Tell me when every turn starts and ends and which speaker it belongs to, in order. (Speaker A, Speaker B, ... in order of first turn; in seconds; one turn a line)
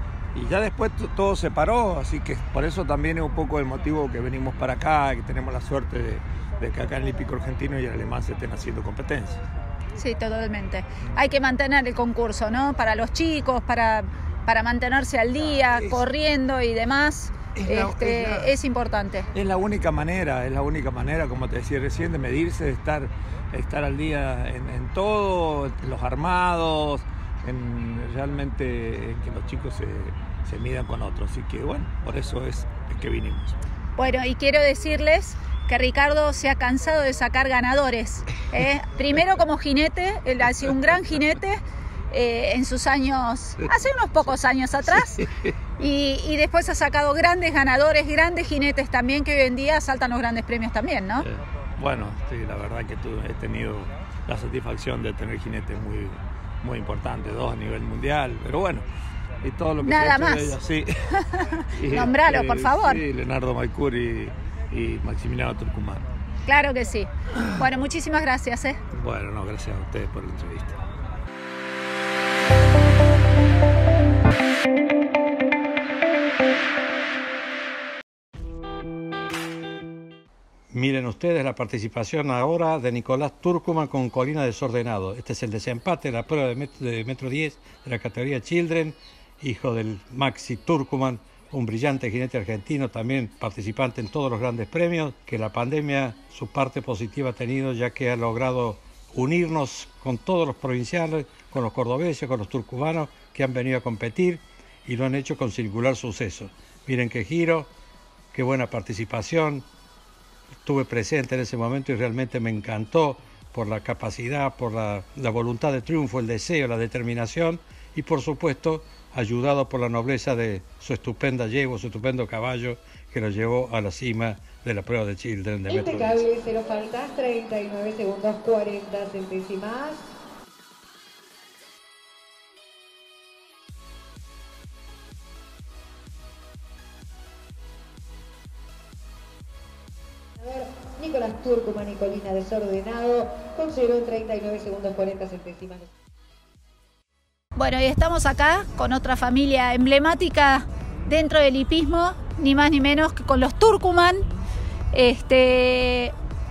Speaker A: 0.3-9.4
Speaker B: 10.0-19.3
Speaker A: 15.8-16.0
Speaker A: 17.6-18.5
Speaker A: 19.3-33.5
Speaker B: 34.0-45.2
Speaker A: 45.2-45.5
Speaker B: 45.8-51.2
Speaker A: 51.2-58.8
Speaker A: 59.4-60.9
Speaker B: 59.8-60.5
Speaker B: 61.4-63.0
Speaker A: 61.8-66.0
Speaker B: 66.5-68.8
Speaker A: 68.9-70.8
Speaker C: 80.7-107.7
Speaker C: 108.3-109.6
Speaker C: 110.6-126.2
Speaker D: 125.7-130.1
Speaker D: 140.4-145.9
Speaker B: 147.6-154.2
Speaker B: 154.9-156.1